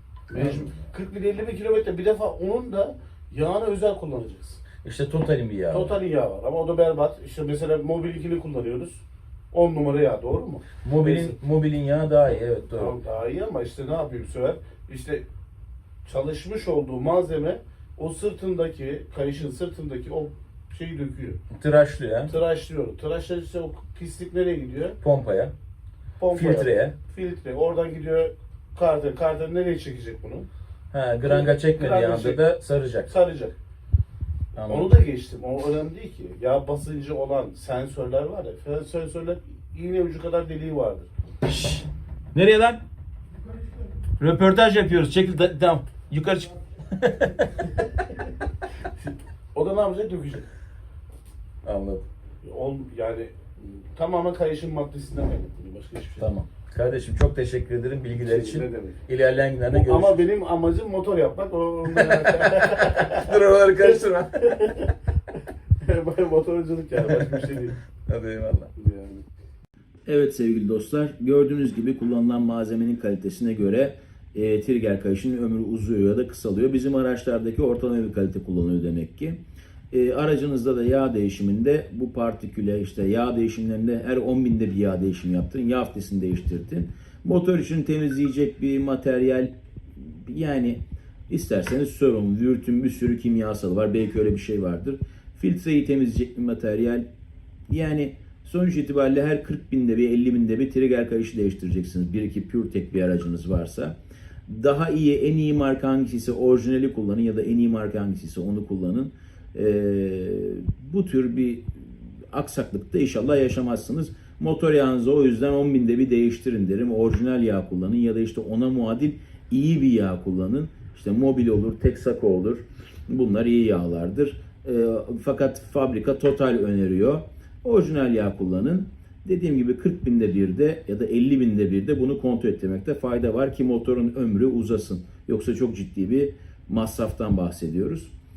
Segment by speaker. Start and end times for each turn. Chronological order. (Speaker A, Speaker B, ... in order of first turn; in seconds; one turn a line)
Speaker A: 0.3-4.6
Speaker B: 0.4-0.7
Speaker B: 4.8-6.0
Speaker A: 5.7-11.4
Speaker B: 10.8-12.9
Speaker A: 12.7-15.3
Speaker A: 16.1-21.4
Speaker B: 21.5-22.3
Speaker A: 22.3-25.0
Speaker B: 25.0-25.5
Speaker A: 26.2-30.5
Speaker B: 26.3-27.0
Speaker B: 30.9-33.1
Speaker A: 31.2-32.4
Speaker A: 33.0-33.6
Speaker B: 34.6-34.9
Speaker A: 34.6-41.1
Speaker B: 41.5-42.8
Speaker B: 44.2-47.9
Speaker A: 49.5-50.5
Speaker B: 51.6-52.1
Speaker A: 52.4-53.4
Speaker A: 54.0-56.3
Speaker B: 56.2-60.2
Speaker A: 58.2-59.0
Speaker A: 59.7-64.9
Speaker B: 61.9-64.8
Speaker A: 65.8-67.8
Speaker B: 67.1-68.7
Speaker A: 68.8-69.2
Speaker B: 70.1-79.4
Speaker B: 79.9-97.1
Speaker B: 97.7-138.1